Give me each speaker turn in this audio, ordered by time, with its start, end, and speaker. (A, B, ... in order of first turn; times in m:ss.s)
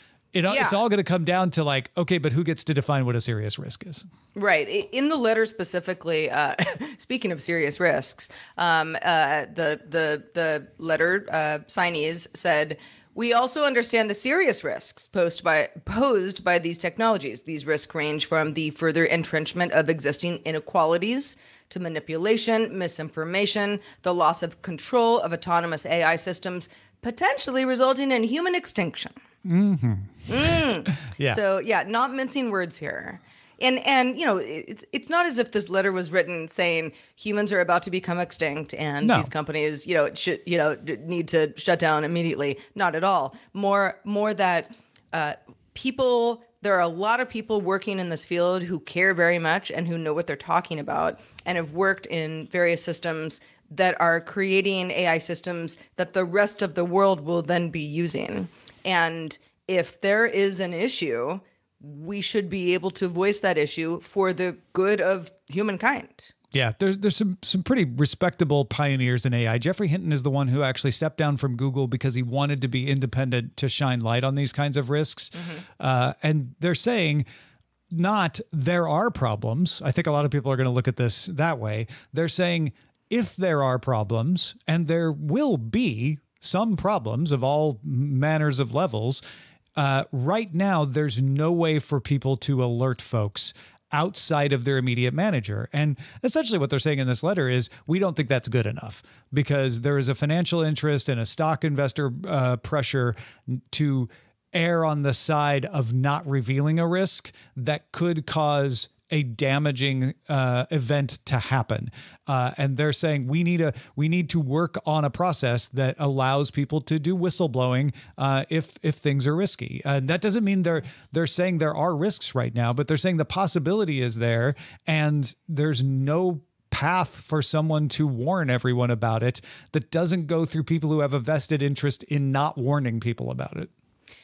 0:00.3-0:04.0 A
0:00.5-0:00.8 B
0:04.3-0:29.1 B
0:29.4-0:31.4 A
0:30.3-1:06.3 B
0:39.0-0:39.3 A
1:06.5-1:17.2 A
1:15.3-1:15.6 B
1:17.9-1:29.2 A
1:29.8-2:13.7 A